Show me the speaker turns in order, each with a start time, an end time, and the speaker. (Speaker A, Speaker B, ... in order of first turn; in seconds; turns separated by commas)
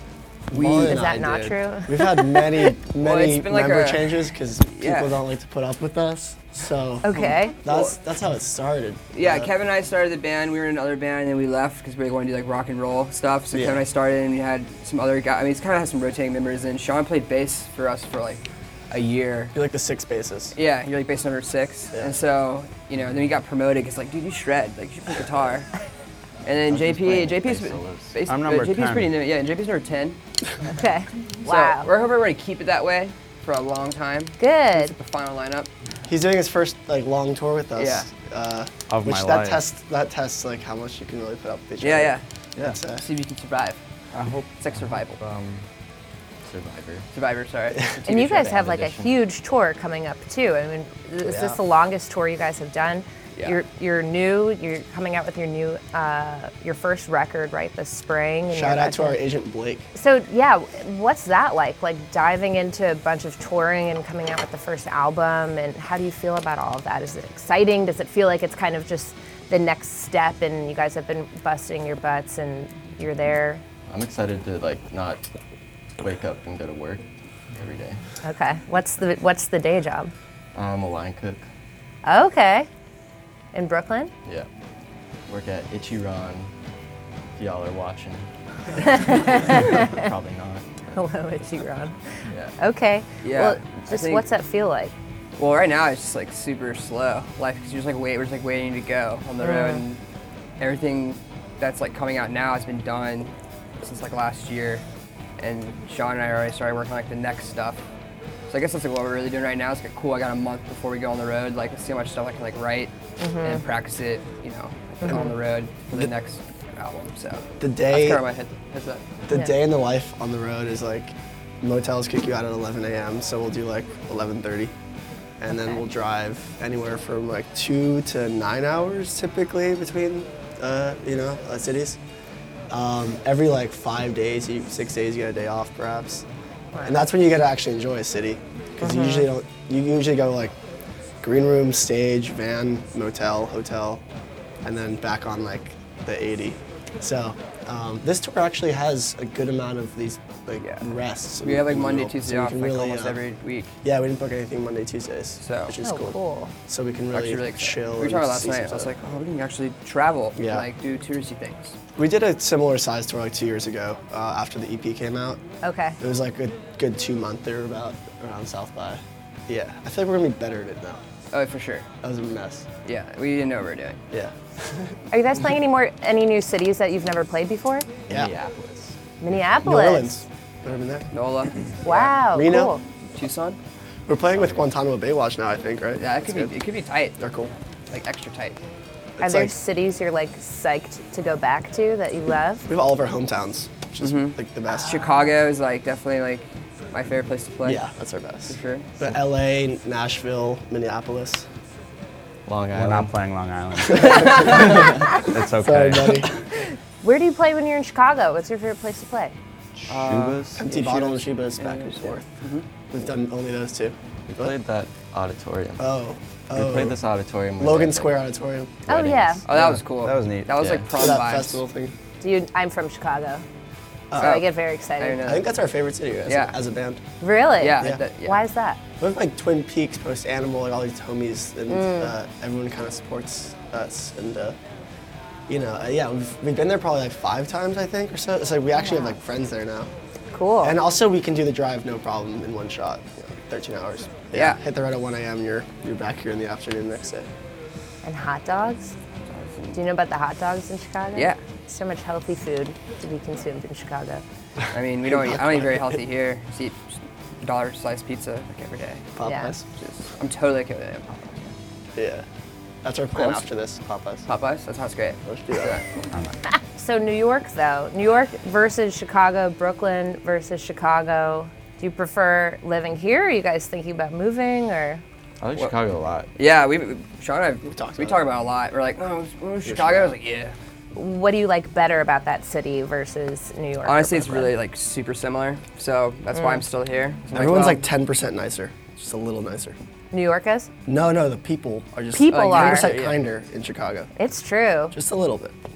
Speaker A: 0.5-9.5, Speaker B: 0.5-2.7, Speaker C: 0.6-0.9, Speaker C: 3.0-5.2, Speaker B: 7.0-7.5, Speaker C: 7.6-8.0, Speaker C: 9.1-19.6, Speaker A: 13.5-13.8, Speaker A: 19.5-20.5, Speaker C: 20.5-25.7, Speaker C: 26.4-30.2, Speaker D: 26.5-28.2, Speaker E: 28.3-29.1, Speaker B: 30.6-31.9, Speaker C: 31.4-35.7, Speaker B: 34.4-34.9, Speaker A: 36.1-43.0, Speaker C: 37.8-38.1, Speaker E: 38.9-39.6, Speaker C: 41.8-42.2, Speaker C: 43.0-43.8, Speaker E: 44.1-45.6, Speaker C: 44.6-45.2, Speaker D: 46.4-47.1, Speaker C: 47.1-48.0, Speaker D: 47.9-49.1, Speaker B: 48.0-59.2, Speaker A: 51.2-51.6, Speaker A: 58.5-59.9, Speaker B: 59.9-73.6, Speaker D: 73.9-75.2, Speaker D: 76.0-78.0, Speaker B: 78.2-80.1, Speaker D: 80.5-81.4, Speaker B: 82.0-82.7, Speaker B: 83.5-84.1, Speaker D: 85.3-86.5, Speaker D: 87.4-91.0, Speaker B: 88.8-89.9, Speaker B: 90.9-92.0, Speaker D: 92.3-92.5, Speaker B: 92.6-94.9, Speaker C: 93.2-94.2, Speaker C: 95.4-100.0, Speaker B: 99.4-99.8, Speaker C: 100.6-104.8, Speaker C: 105.4-107.8, Speaker C: 108.5-119.0, Speaker B: 113.2-113.6, Speaker B: 115.0-115.3, Speaker A: 115.1-115.3, Speaker A: 117.6-118.2, Speaker A: 119.2-124.7, Speaker A: 125.4-132.0, Speaker A: 132.7-136.2, Speaker B: 136.7-137.0, Speaker A: 136.8-140.6, Speaker B: 138.8-139.3, Speaker A: 141.2-144.0, Speaker A: 144.6-153.2, Speaker C: 150.6-150.9, Speaker C: 151.4-153.7, Speaker A: 153.8-158.9, Speaker C: 155.4-155.7, Speaker B: 155.8-156.5, Speaker C: 157.1-161.7, Speaker A: 160.4-160.7, Speaker A: 161.9-165.4, Speaker B: 165.6-166.0, Speaker A: 166.0-171.0, Speaker C: 171.3-171.9, Speaker A: 172.0-172.7, Speaker C: 172.8-174.0, Speaker A: 174.1-175.0, Speaker B: 175.1-177.9, Speaker D: 178.1-179.0, Speaker B: 179.2-180.1, Speaker A: 179.6-181.1, Speaker C: 181.1-182.1, Speaker B: 181.8-182.8, Speaker A: 181.9-182.7, Speaker C: 183.1-183.6, Speaker A: 184.1-186.5, Speaker D: 184.3-184.7, Speaker C: 186.0-187.2, Speaker A: 187.2-187.5, Speaker C: 187.9-188.6, Speaker A: 189.2-189.5, Speaker B: 189.2-192.7, Speaker A: 192.7-195.0, Speaker C: 194.0-197.8, Speaker B: 194.7-195.3, Speaker A: 197.6-201.5, Speaker C: 198.5-198.9, Speaker D: 202.5-203.1, Speaker E: 202.7-206.3, Speaker A: 203.8-206.4, Speaker B: 207.0-209.4, Speaker D: 209.9-211.0, Speaker C: 209.9-212.7, Speaker A: 210.6-212.2, Speaker A: 212.9-214.5, Speaker D: 214.3-215.8, Speaker A: 215.8-217.0, Speaker D: 216.5-218.2, Speaker A: 217.6-218.9, Speaker D: 218.9-219.4, Speaker B: 218.9-219.4, Speaker C: 219.4-221.6, Speaker E: 219.5-220.6, Speaker D: 220.6-220.9, Speaker A: 220.9-221.9, Speaker B: 222.2-223.4, Speaker A: 224.1-224.5, Speaker B: 224.1-225.2, Speaker C: 224.2-225.5, Speaker A: 225.2-227.0, Speaker C: 226.2-226.6, Speaker B: 227.2-228.8, Speaker C: 227.6-228.4, Speaker A: 229.0-234.6, Speaker B: 231.7-232.1, Speaker A: 235.5-239.9, Speaker B: 238.8-239.1, Speaker B: 240.3-240.8, Speaker A: 240.6-247.3, Speaker C: 244.3-244.6, Speaker B: 248.0-248.9, Speaker C: 249.3-249.8, Speaker B: 249.7-254.2, Speaker C: 251.1-251.4, Speaker C: 254.7-259.1, Speaker A: 255.1-256.0, Speaker A: 259.1-259.6, Speaker B: 259.2-259.5, Speaker C: 259.8-261.5, Speaker A: 262.0-262.2, Speaker A: 262.8-264.3, Speaker C: 263.1-263.4, Speaker C: 264.3-265.9, Speaker A: 265.2-265.8, Speaker B: 266.5-275.0, Speaker D: 275.4-276.3, Speaker C: 276.3-280.5, Speaker A: 277.6-278.2, Speaker A: 279.6-280.1, Speaker B: 280.9-284.5, Speaker C: 283.8-287.9, Speaker B: 286.3-286.6, Speaker A: 287.3-289.8, Speaker B: 290.1-290.7, Speaker A: 290.9-294.1, Speaker B: 292.1-292.9, Speaker C: 292.3-293.2, Speaker B: 294.2-294.9, Speaker A: 294.9-295.6